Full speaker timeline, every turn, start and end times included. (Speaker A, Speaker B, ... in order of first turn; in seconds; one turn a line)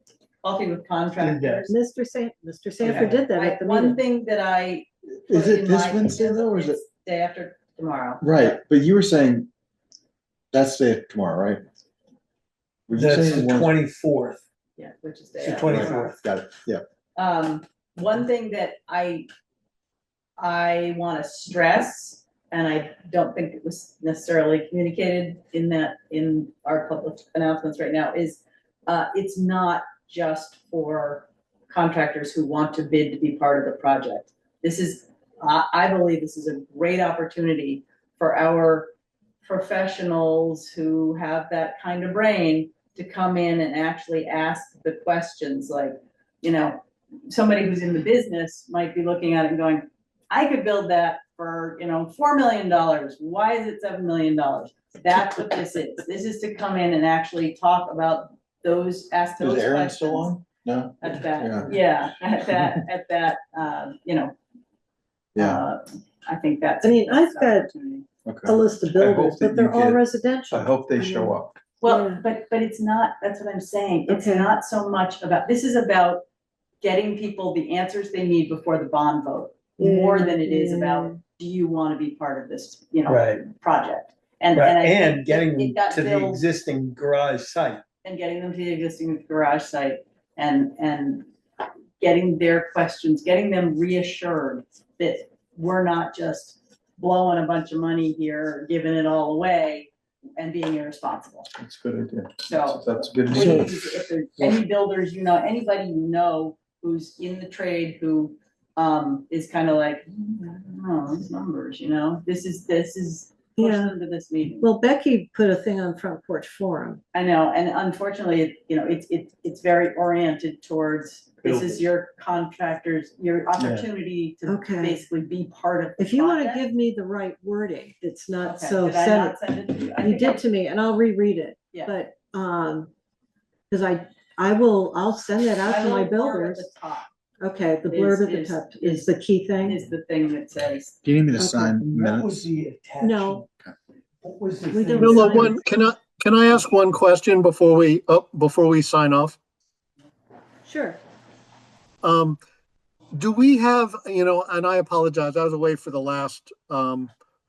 Speaker A: 0.4-1.7
Speaker B: 1.2-1.6
Speaker C: 1.7-4.0
Speaker A: 2.8-8.5
Speaker B: 2.8-3.1
Speaker D: 5.3-6.8
Speaker D: 8.2-9.5
Speaker D: 10.5-11.6
Speaker D: 12.9-13.8
Speaker B: 12.9-14.4
Speaker A: 14.8-16.2
Speaker B: 15.4-16.2
Speaker D: 15.6-16.8
Speaker A: 17.1-19.3
Speaker A: 20.4-38.9
Speaker A: 39.4-60.4
Speaker D: 59.4-61.8
Speaker A: 61.0-64.3
Speaker D: 65.3-65.6
Speaker A: 65.3-68.1
Speaker C: 66.8-67.7
Speaker D: 68.2-68.6
Speaker C: 68.4-72.2
Speaker E: 68.9-70.0
Speaker E: 70.5-71.6
Speaker A: 71.8-76.2
Speaker C: 74.1-74.5
Speaker A: 76.8-86.4
Speaker C: 79.8-81.2
Speaker B: 83.1-83.4
Speaker B: 84.5-87.8
Speaker A: 88.0-91.3
Speaker A: 92.0-101.5
Speaker E: 101.6-103.7
Speaker A: 102.5-114.7
Speaker C: 113.6-113.9
Speaker C: 114.6-117.0
Speaker A: 117.1-126.6
Speaker B: 121.4-121.8
Speaker B: 123.6-123.8
Speaker C: 124.5-125.0
Speaker C: 126.0-129.4
Speaker A: 128.4-130.4
Speaker C: 130.0-132.9
Speaker C: 133.7-136.7
Speaker A: 135.6-137.1
Speaker C: 137.4-139.8
Speaker A: 137.9-139.1
Speaker A: 139.6-141.0
Speaker D: 141.0-142.4
Speaker B: 141.8-143.5
Speaker C: 143.0-143.4
Speaker B: 144.2-145.6
Speaker C: 144.7-145.5
Speaker F: 144.9-149.4
Speaker C: 150.7-151.0
Speaker F: 152.0-152.4
Speaker F: 153.2-157.1